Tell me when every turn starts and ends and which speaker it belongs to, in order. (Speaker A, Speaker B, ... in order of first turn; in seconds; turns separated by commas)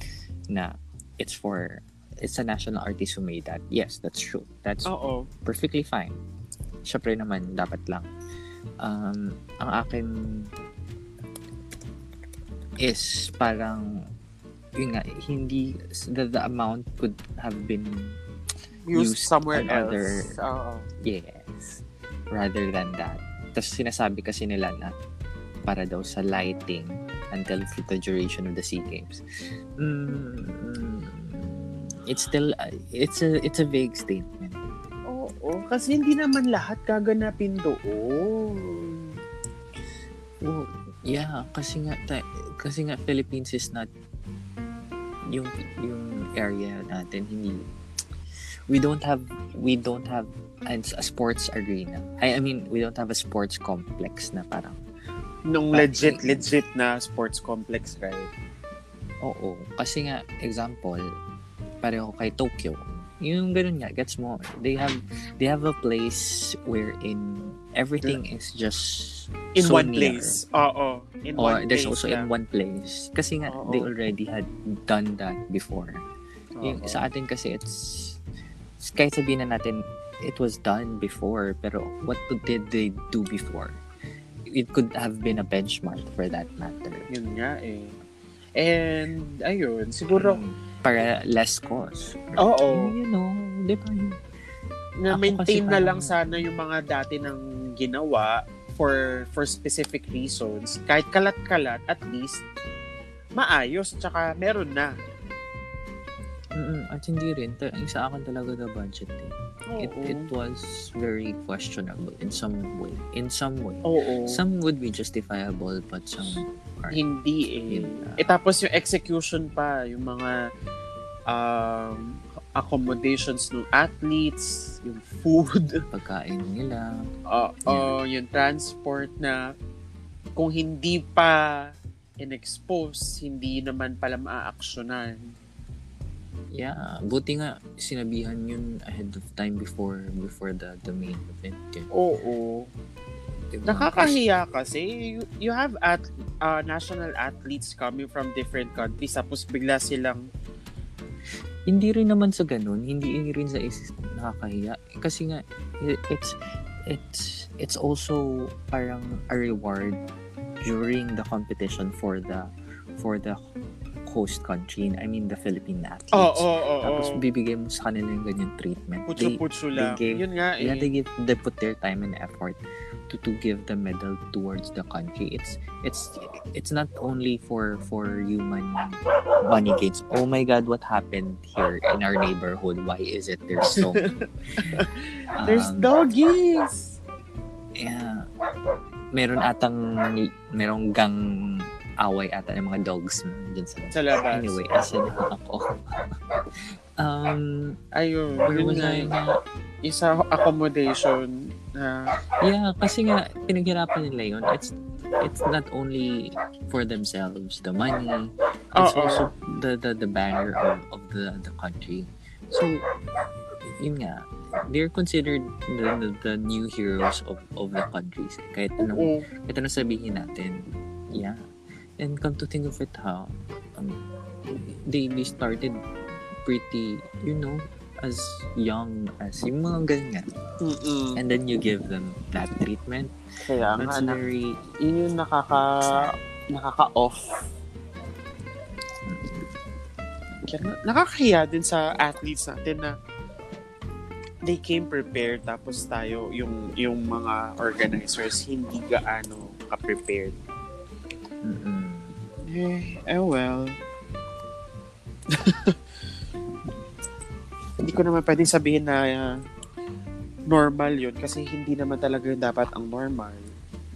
Speaker A: 0.5-4.9, Speaker B: 4.9-5.3, Speaker A: 5.5-6.2, Speaker A: 6.8-8.1, Speaker A: 8.8-10.5, Speaker A: 12.8-13.9, Speaker A: 14.8-18.2, Speaker B: 18.9-20.9, Speaker A: 18.9-20.4, Speaker A: 21.0-24.9, Speaker A: 25.7-29.2, Speaker A: 29.8-34.6, Speaker B: 35.1-39.1, Speaker A: 40.4-43.9, Speaker A: 45.3-47.7, Speaker A: 48.7-54.8, Speaker B: 55.5-58.3, Speaker A: 55.7-56.5, Speaker A: 59.2-61.0, Speaker A: 61.8-70.4, Speaker B: 69.6-72.3, Speaker A: 71.4-76.0, Speaker B: 73.5-73.9, Speaker B: 76.6-77.0, Speaker A: 76.6-78.2, Speaker A: 78.8-83.8, Speaker A: 84.5-87.1, Speaker B: 87.1-88.0, Speaker B: 88.6-90.4, Speaker A: 90.2-94.2, Speaker B: 92.4-92.9, Speaker B: 95.0-102.5, Speaker A: 95.1-96.5, Speaker B: 103.4-104.9, Speaker A: 106.6-117.0, Speaker B: 109.7-110.3, Speaker B: 113.9-114.4, Speaker B: 116.9-120.4, Speaker A: 117.7-118.3, Speaker B: 121.3-125.8, Speaker A: 125.9-127.0, Speaker B: 127.3-129.4, Speaker A: 127.7-128.0, Speaker B: 130.4-131.6, Speaker B: 132.2-135.2, Speaker A: 136.5-141.9, Speaker B: 141.9-142.7, Speaker A: 143.5-144.2, Speaker B: 143.7-150.3, Speaker A: 151.7-156.4, Speaker A: 156.9-160.0, Speaker A: 160.6-162.5, Speaker A: 163.0-163.4, Speaker A: 164.1-184.1, Speaker B: 166.1-167.2, Speaker B: 169.1-170.9, Speaker B: 183.6-187.0, Speaker A: 185.4-185.9, Speaker A: 187.8-188.2, Speaker A: 189.1-195.6, Speaker B: 193.9-194.6, Speaker A: 197.0-197.8, Speaker B: 197.9-199.1, Speaker A: 198.4-199.4, Speaker B: 199.8-202.1, Speaker A: 202.4-212.8, Speaker B: 208.8-209.3, Speaker A: 213.6-221.4, Speaker B: 218.8-219.3, Speaker A: 222.0-224.0, Speaker A: 224.6-225.8, Speaker A: 226.4-230.3, Speaker B: 230.6-231.2, Speaker A: 231.2-233.1, Speaker B: 233.4-234.2, Speaker A: 233.7-234.6, Speaker B: 234.8-237.4, Speaker A: 235.9-236.1, Speaker A: 239.1-239.4, Speaker B: 240.5-242.9, Speaker B: 244.5-250.4, Speaker A: 251.4-252.2, Speaker B: 252.5-253.8, Speaker B: 255.3-255.8, Speaker B: 257.8-259.4, Speaker B: 260.5-263.4